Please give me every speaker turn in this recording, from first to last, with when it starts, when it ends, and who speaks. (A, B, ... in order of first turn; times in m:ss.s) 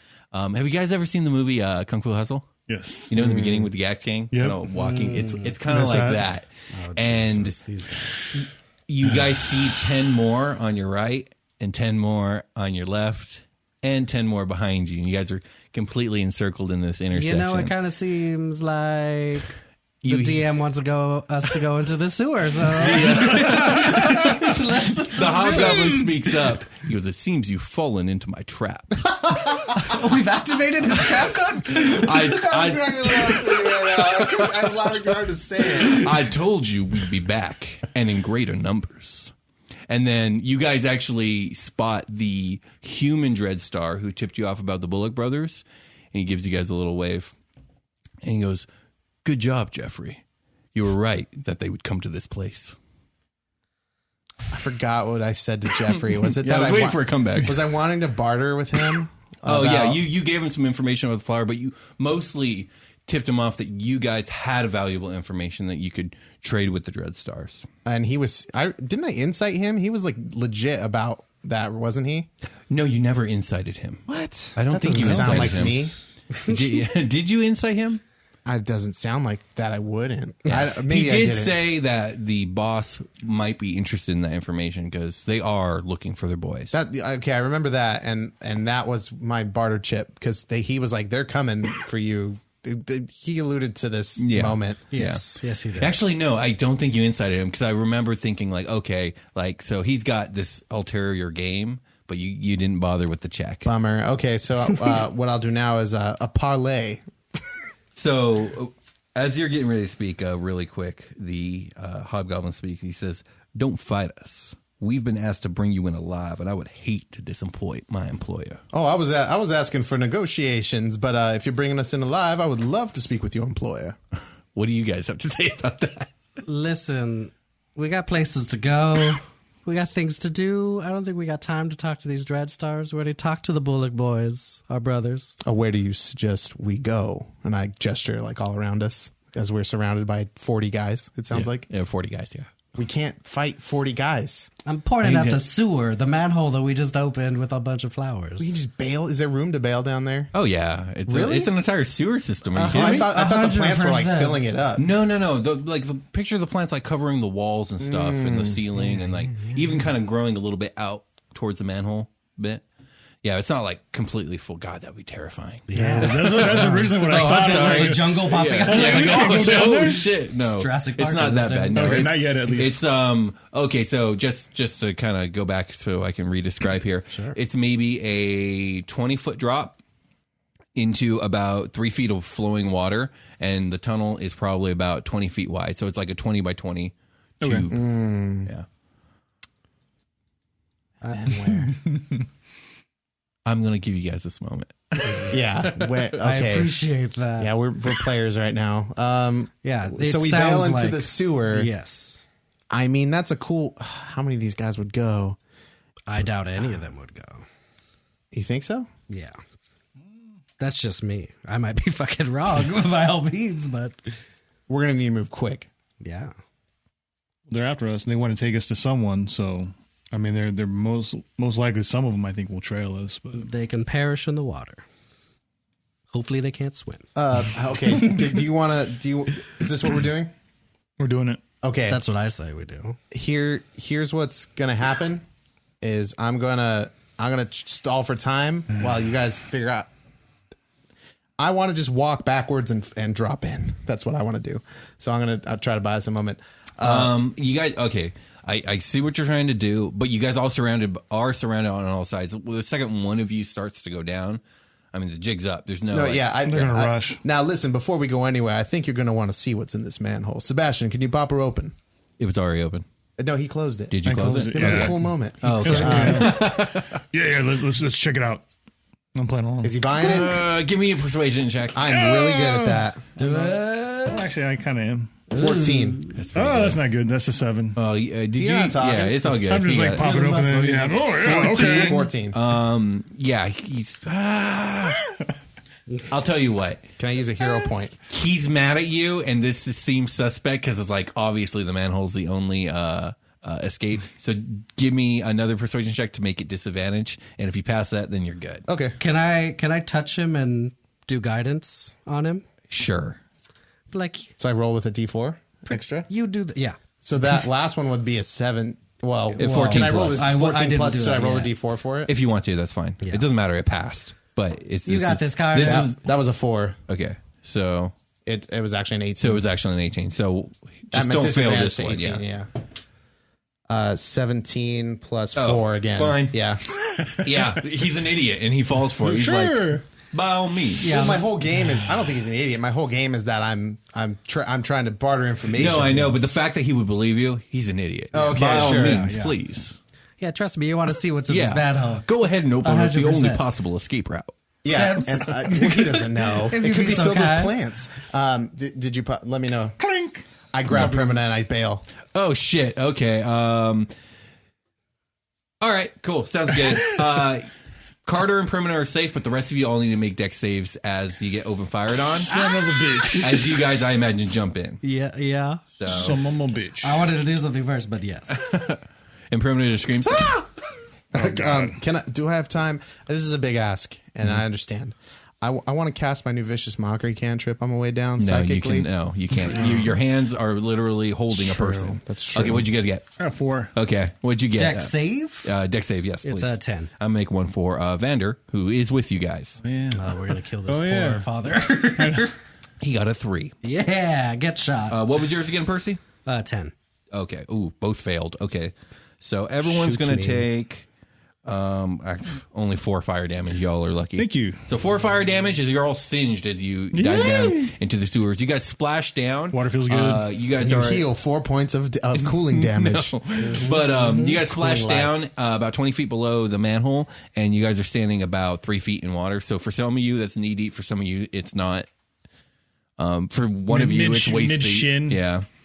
0:00.3-0:02.5 A
0:02.7-0:03.1 B
0:03.1-0:07.6 A
0:03.1-0:03.7 C
0:04.3-0:04.7 B
0:04.8-0:05.6 D
0:05.7-0:06.2 B
0:06.7-0:08.5 D
0:08.2-0:17.7 A
0:17.1-0:26.4 D
0:20.0-0:20.5 A
0:22.7-0:29.1 A
0:29.7-0:33.5 D
0:31.7-0:33.6 A
0:32.2-0:36.2 C
0:35.9-0:39.3 A
0:39.9-0:47.3 A
0:48.2-0:48.7 A
0:49.2-0:50.2 A
0:50.7-0:52.8 A
0:54.5-1:00.0 C
0:56.3-0:57.7 A
0:59.5-1:07.7 A
1:07.8-1:12.3 C
1:12.7-1:15.9 A
1:14.1-1:15.9 C
1:15.0-1:15.7 D
1:16.4-1:18.0 A
1:18.5-1:21.6 C
1:20.5-1:26.8 A
1:26.7-1:34.8 C
1:34.2-1:35.3 A
1:34.9-1:36.0 D
1:35.8-1:43.7 A
1:43.7-1:47.0 C
1:47.9-1:58.6 A
1:58.7-2:04.0 C
2:04.6-2:06.1 A
2:06.4-2:15.4 D
2:15.4-2:21.6 C
2:21.3-2:22.5 A
2:22.8-2:24.5 C
2:24.7-2:28.5 D
2:25.0-2:25.4 A
2:28.4-2:30.3 C
2:30.3-2:33.1 A
2:31.1-2:31.5 C
2:32.5-2:34.5 D
2:32.7-2:34.9 C
2:34.8-2:42.6 A
2:37.8-2:38.6 C
2:43.2-2:59.8 A
2:45.7-2:52.1 D
2:45.7-2:50.1 B
2:51.7-2:52.8 B
2:57.1-2:57.4 D
3:00.8-3:08.7 A
3:07.4-3:07.7 B
3:07.7-3:08.5 C
3:11.0-3:11.4 D
3:11.0-3:11.8 C
3:11.6-3:12.2 B
3:13.5-3:16.1 A
3:15.3-3:16.8 C
3:16.2-3:17.5 D
3:17.4-3:21.7 C
3:19.6-3:22.2 D
3:22.7-3:25.4 C
3:26.1-3:27.5 D
3:28.3-3:28.9 C
3:29.1-3:29.4 D
3:30.6-3:34.1 D
3:34.7-3:35.7 C
3:36.0-3:36.3 D
3:37.5-3:43.5 B
3:43.3-3:44.8 D
3:46.1-3:47.1 D
3:47.2-3:50.3 C
3:51.0-3:51.4 B
3:51.6-3:52.0 C
3:51.9-3:53.0 D
3:53.1-3:55.2 C
3:55.8-3:59.9 C
4:01.4-4:07.1 C
4:06.8-4:14.4 A
4:14.9-4:16.3 A
4:15.9-4:21.7 C
4:16.4-4:17.2 B
4:22.2-4:22.8 A
4:23.2-4:26.4 C
4:23.9-4:27.0 A
4:24.0-4:25.0 B
4:25.6-4:28.4 B
4:25.7-4:26.2 D
4:29.2-4:29.8 B
4:29.6-4:30.5 C
4:29.9-4:32.0 A
4:31.8-4:33.0 C
4:31.9-4:35.3 B
4:33.2-4:34.2 D
4:35.3-4:36.0 C
4:35.3-4:36.2 D
4:36.1-4:36.8 A
4:36.3-4:37.8 B
4:37.8-4:40.1 A
4:38.4-4:39.4 C
4:39.5-4:42.1 B
4:39.9-4:41.4 D
4:41.2-4:45.1 A
4:41.3-4:42.4 C
4:46.1-4:46.8 A
4:47.0-4:48.0 C
4:48.1-4:58.6 A
4:58.7-4:59.0 C
4:59.0-5:02.4 D
5:02.7-5:03.2 A
5:03.9-5:04.3 D
5:04.4-5:06.1 C
5:06.0-5:06.8 D
5:07.0-5:12.1 C
5:09.4-5:11.5 D
5:09.4-5:10.3 A
5:12.1-5:16.0 A
5:14.9-5:15.9 D
5:15.6-5:16.8 C
5:16.9-5:17.9 A
5:18.3-5:19.4 C
5:19.2-5:22.2 A
5:20.9-5:22.5 C
5:23.7-5:26.6 C
5:25.4-5:26.5 A
5:27.0-5:27.6 B
5:27.0-5:31.1 A
5:29.0-5:29.8 B
5:30.8-5:31.2 D
5:30.8-5:36.2 C
5:35.5-5:39.8 A
5:38.1-5:39.1 C
5:38.2-5:39.4 D
5:40.2-5:42.1 D
5:41.3-5:44.3 A
5:42.6-5:43.4 D
5:44.6-5:49.8 C
5:44.7-5:47.6 D
5:49.8-5:50.3 B
5:50.5-5:51.8 C
5:52.1-5:53.9 A
5:55.6-5:57.5 A
5:58.0-6:02.4 A
6:02.3-6:03.7 B
6:03.2-6:04.8 A
6:04.8-6:05.7 D
6:05.8-6:06.2 A
6:05.8-6:07.1 B
6:06.8-6:08.4 D
6:08.3-6:10.5 A
6:10.1-6:10.4 C
6:11.1-6:18.9 C
6:11.2-6:11.7 B
6:18.2-6:23.1 A
6:19.5-6:19.9 C
6:21.3-6:22.7 C
6:23.2-6:23.7 B
6:23.7-6:29.6 A
6:24.6-6:25.5 D
6:26.2-6:26.9 D
6:29.6-6:31.3 B
6:29.9-6:32.4 D
6:32.8-6:33.6 A
6:33.6-6:35.0 D
6:34.9-6:36.0 A
6:36.2-6:36.7 D
6:37.1-6:40.9 A
6:39.6-6:40.5 D
6:41.4-6:51.1 A
6:44.2-6:44.6 B
6:46.9-6:47.7 B
6:49.5-6:50.3 B
6:50.6-6:53.2 C
6:52.2-7:01.9 A
6:53.4-6:54.4 D
6:54.4-6:55.2 C
7:03.0-7:05.4 A
7:03.7-7:05.2 B